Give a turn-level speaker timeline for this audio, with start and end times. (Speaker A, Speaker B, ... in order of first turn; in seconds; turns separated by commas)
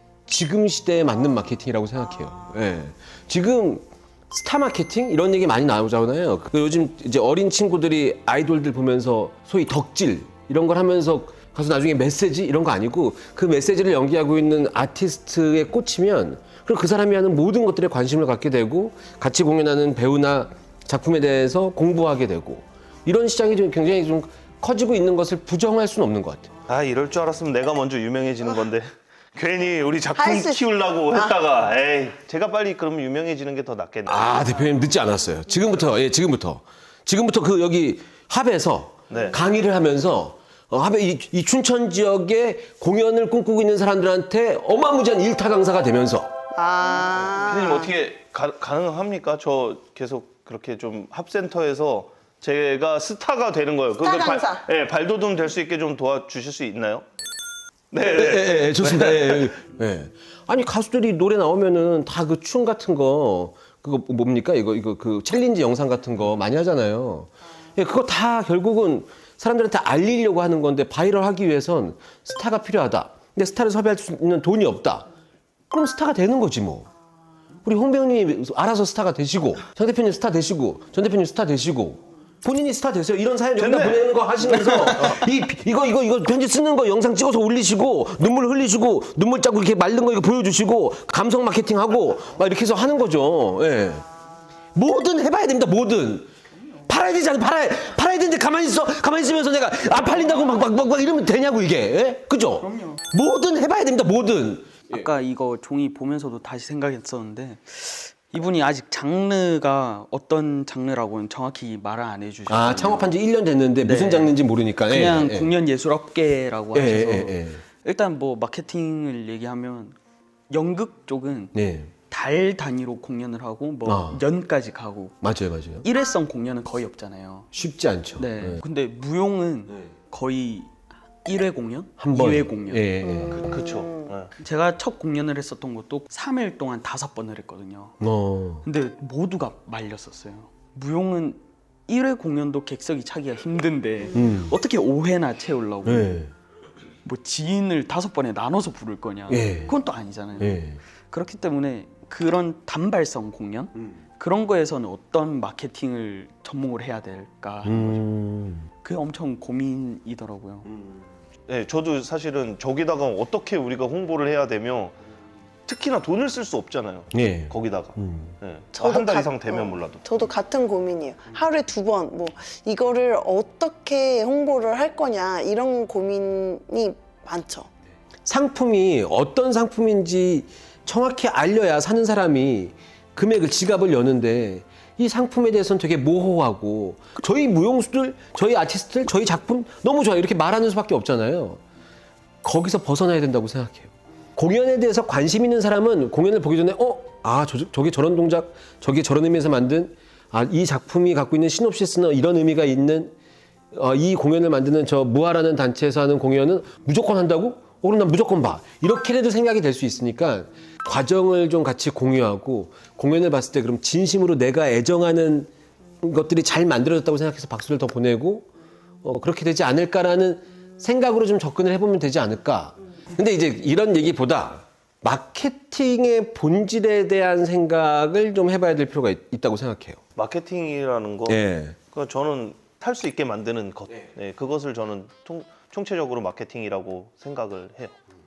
Speaker A: 0.3-26.5, Speaker B: 26.7-34.5, Speaker C: 30.1-31.4, Speaker A: 34.1-46.3, Speaker B: 39.1-39.4, Speaker C: 46.5-47.9, Speaker B: 47.3-57.0, Speaker C: 54.0-54.6, Speaker B: 57.9-59.5, Speaker A: 58.1-75.0, Speaker A: 75.7-76.9, Speaker A: 77.6-94.0, Speaker B: 83.5-85.2, Speaker A: 94.7-96.3, Speaker A: 96.8-105.1, Speaker D: 102.6-103.0, Speaker D: 104.9-113.1, Speaker A: 112.5-115.5, Speaker D: 113.8-114.3, Speaker D: 114.9-120.0, Speaker A: 116.7-117.6, Speaker D: 120.5-121.5, Speaker A: 121.5-121.9, Speaker D: 122.1-125.2, Speaker A: 123.8-124.2, Speaker A: 125.2-125.9, Speaker D: 125.8-127.5, Speaker A: 127.5-128.6, Speaker D: 128.2-130.7, Speaker D: 131.2-132.9, Speaker A: 132.0-133.5, Speaker C: 133.2-133.9, Speaker B: 133.4-134.3, Speaker D: 134.4-137.9, Speaker A: 138.0-138.6, Speaker D: 138.6-146.2, Speaker A: 144.1-144.5, Speaker A: 145.8-146.3, Speaker D: 147.0-150.6, Speaker A: 149.3-149.7, Speaker A: 150.4-150.8, Speaker D: 151.1-158.0, Speaker A: 157.6-158.7, Speaker D: 158.8-160.7, Speaker B: 161.5-164.9, Speaker B: 165.7-170.0, Speaker A: 167.1-168.3, Speaker C: 168.8-177.7, Speaker A: 178.2-191.6, Speaker A: 192.4-203.1, Speaker A: 203.7-215.5, Speaker A: 216.0-218.5, Speaker A: 219.0-230.0, Speaker B: 230.2-231.4, Speaker A: 231.3-231.8, Speaker B: 231.9-237.9